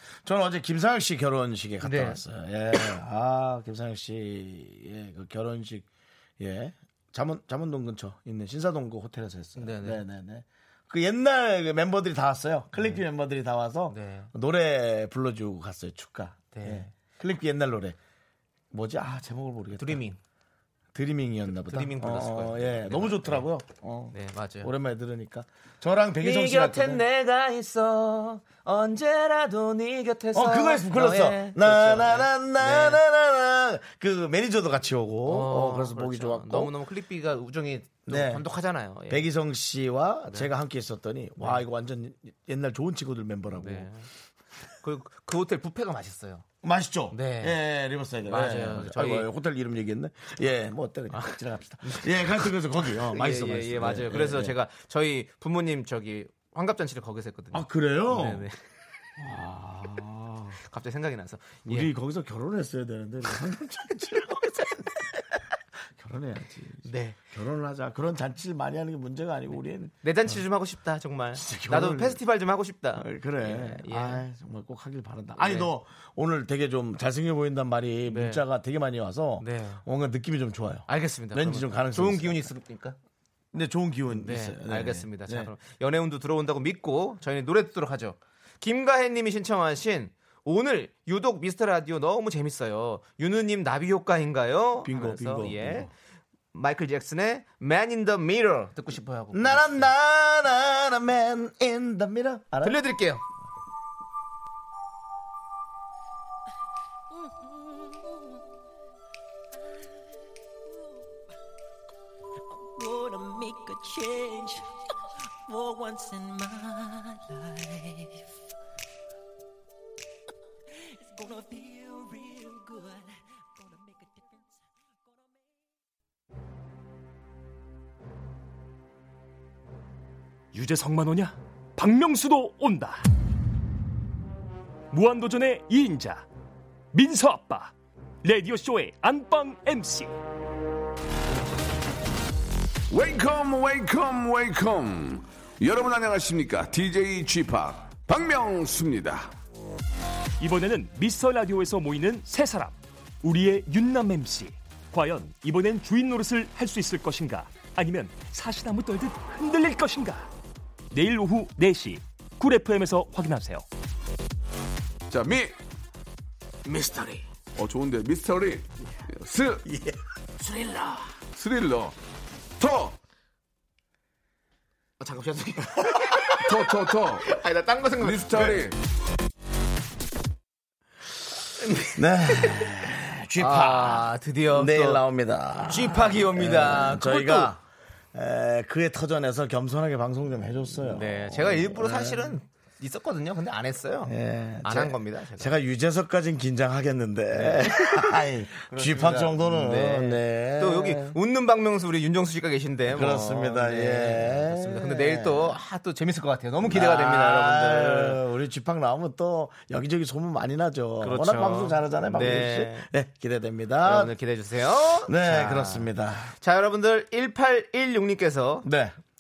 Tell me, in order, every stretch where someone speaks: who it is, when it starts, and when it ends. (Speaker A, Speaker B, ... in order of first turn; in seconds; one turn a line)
Speaker A: 0.2-5.9
Speaker B: 1.8-2.2
Speaker A: 6.4-18.0
Speaker B: 9.6-10.0
Speaker B: 12.8-13.0
Speaker B: 13.9-14.3
Speaker B: 16.5-16.9
Speaker A: 18.7-20.0
Speaker B: 19.8-20.2
Speaker A: 20.9-27.0
Speaker B: 21.6-23.5
Speaker B: 24.1-24.7
Speaker B: 26.2-33.0
Speaker A: 30.3-36.7
Speaker B: 35.3-39.2
Speaker A: 38.1-38.4
Speaker A: 39.1-43.9
Speaker B: 43.5-44.1
Speaker B: 44.8-46.5
Speaker A: 46.6-54.5
Speaker B: 47.1-47.6
Speaker B: 48.3-49.3
Speaker B: 51.1-58.6
Speaker A: 57.5-58.5
Speaker A: 59.2-60.6
Speaker B: 60.6-61.9
Speaker A: 61.7-65.2
Speaker A: 66.0-70.4
Speaker B: 66.8-67.2
Speaker B: 70.0-74.2
Speaker A: 71.3-72.2
Speaker A: 73.0-82.5
Speaker B: 75.4-75.7
Speaker B: 78.1-78.4
Speaker B: 79.4-79.8
Speaker B: 80.9-83.0
Speaker A: 83.5-85.5
Speaker B: 84.1-95.9
Speaker A: 94.8-95.9
Speaker B: 96.5-99.9
Speaker A: 99.3-102.8
Speaker B: 102.6-103.2
Speaker C: 112.6-114.7
Speaker C: 115.5-118.3
Speaker C: 121.1-124.6
Speaker D: 130.5-133.0
Speaker D: 134.9-136.3
Speaker D: 136.9-140.2
Speaker E: 142.9-149.3
Speaker D: 150.4-160.3
Speaker D: 160.9-163.7
Speaker E: 165.1-165.5
Speaker B: 166.7-167.2
Speaker E: 167.6-169.7
Speaker A: 169.7-169.9
Speaker B: 170.4-171.1
Speaker E: 171.3-171.9
Speaker E: 172.6-173.0
Speaker B: 175.0-176.5
Speaker E: 176.3-177.3
Speaker B: 177.2-178.6
Speaker E: 178.0-178.8
Speaker B: 181.6-182.5
Speaker A: 181.9-187.6
Speaker B: 183.4-185.0
Speaker B: 185.7-187.5
Speaker A: 188.1-192.4
Speaker B: 190.8-194.1
Speaker A: 194.1-201.2
Speaker B: 194.6-195.6
Speaker B: 197.3-208.2
Speaker A: 202.9-205.6
Speaker A: 206.6-214.1
Speaker B: 211.0-212.9
Speaker B: 213.8-218.7
Speaker A: 215.0-216.3
Speaker A: 218.6-218.9